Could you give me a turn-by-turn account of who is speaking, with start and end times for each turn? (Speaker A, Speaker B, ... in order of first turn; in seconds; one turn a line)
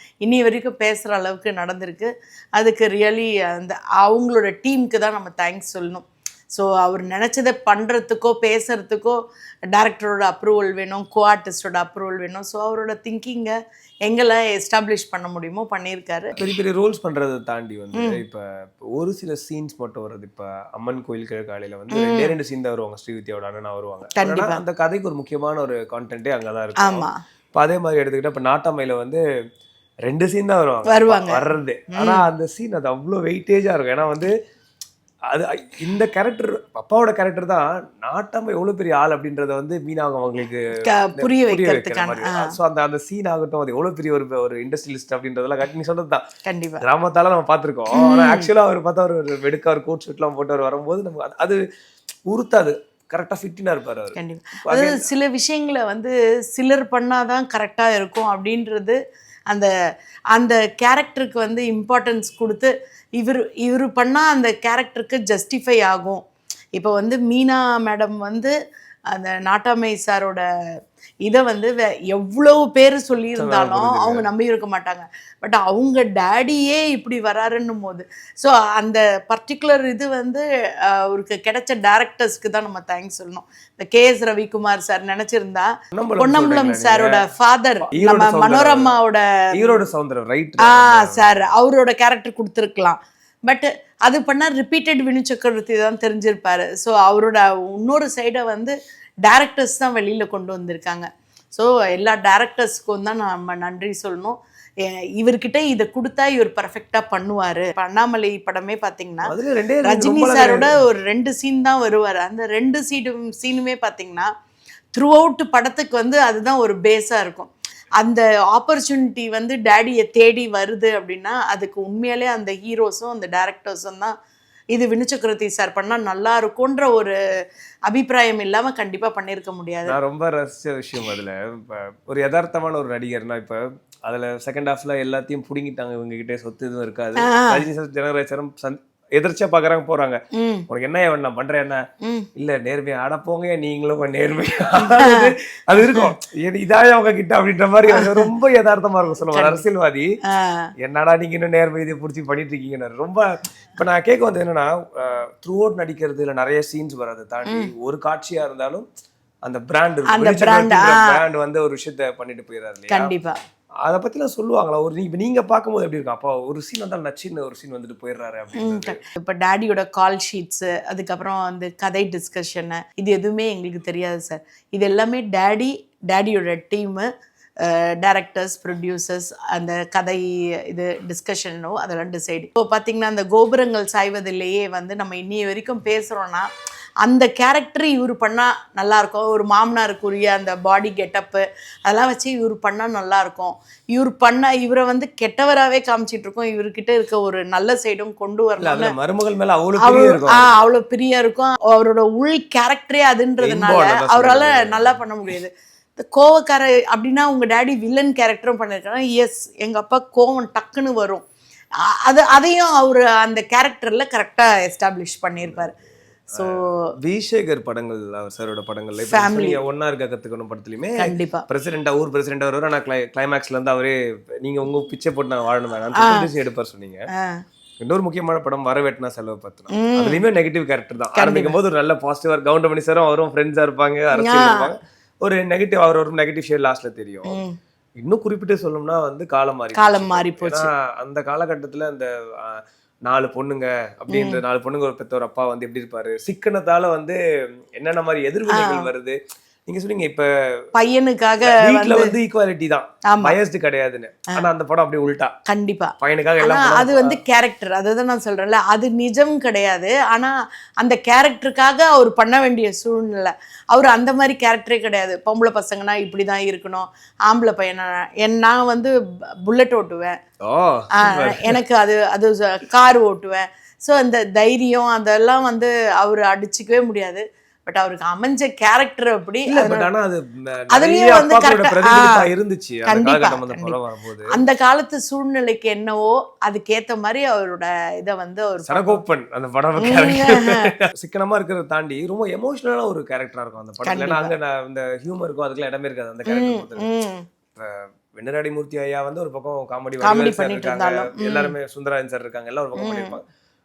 Speaker A: 0.2-9.2
Speaker A: 9.7-13.5
Speaker A: 14.0-16.4
Speaker B: 16.3-29.2
Speaker A: 17.9-18.2
Speaker A: 21.9-22.3
Speaker A: 24.1-24.6
Speaker A: 26.8-27.2
Speaker B: 30.1-34.3
Speaker A: 30.9-32.2
Speaker B: 35.3-46.2
Speaker A: 40.8-42.5
Speaker A: 46.5-46.8
Speaker B: 46.8-51.6
Speaker A: 47.9-48.5
Speaker B: 52.3-55.1
Speaker A: 54.1-59.0
Speaker A: 60.3-68.5
Speaker A: 69.1-70.4
Speaker A: 71.2-89.8
Speaker B: 73.4-74.3
Speaker B: 85.9-87.2
Speaker B: 87.9-88.9
Speaker B: 89.5-91.3
Speaker A: 90.6-109.3
Speaker B: 109.2-110.8
Speaker A: 109.8-114.3
Speaker A: 115.0-124.1
Speaker A: 124.7-127.1
Speaker A: 127.8-129.9
Speaker B: 129.9-141.8
Speaker A: 137.2-137.6
Speaker A: 140.3-140.7
Speaker A: 142.0-142.3
Speaker B: 142.3-150.1
Speaker A: 144.8-145.3
Speaker A: 145.8-146.1
Speaker A: 147.9-148.3
Speaker A: 149.3-149.6
Speaker A: 150.2-150.7
Speaker B: 150.8-153.2
Speaker B: 153.8-158.8
Speaker A: 157.4-157.7
Speaker B: 159.4-163.1
Speaker A: 160.1-161.2
Speaker A: 162.9-163.4
Speaker B: 163.8-169.0
Speaker A: 168.5-177.1
Speaker A: 177.6-186.5
Speaker A: 187.0-198.9
Speaker B: 198.6-200.6
Speaker A: 199.8-211.2
Speaker B: 203.4-205.3
Speaker A: 212.0-215.8
Speaker A: 216.3-216.9
Speaker B: 217.0-227.1
Speaker A: 219.0-219.6
Speaker A: 221.0-221.4
Speaker A: 225.9-226.3
Speaker A: 227.1-227.4
Speaker B: 227.8-237.4
Speaker A: 229.7-230.2
Speaker A: 231.2-231.6
Speaker A: 234.1-234.7
Speaker A: 237.2-237.6
Speaker B: 238.0-247.2
Speaker A: 239.7-240.7
Speaker A: 244.1-244.4
Speaker B: 247.8-250.3
Speaker A: 248.5-248.9
Speaker A: 250.7-252.1
Speaker B: 251.4-255.3
Speaker A: 253.1-253.3
Speaker A: 255.5-268.9
Speaker B: 256.0-257.2
Speaker A: 269.4-270.2
Speaker B: 270.4-271.6
Speaker A: 270.9-279.9
Speaker B: 279.5-284.4
Speaker A: 280.7-282.3
Speaker A: 282.9-283.8
Speaker A: 284.3-289.0
Speaker B: 288.6-296.9
Speaker A: 289.8-290.7
Speaker A: 293.8-294.3
Speaker A: 296.3-297.2
Speaker B: 297.5-303.2
Speaker A: 300.0-301.5
Speaker A: 302.8-303.1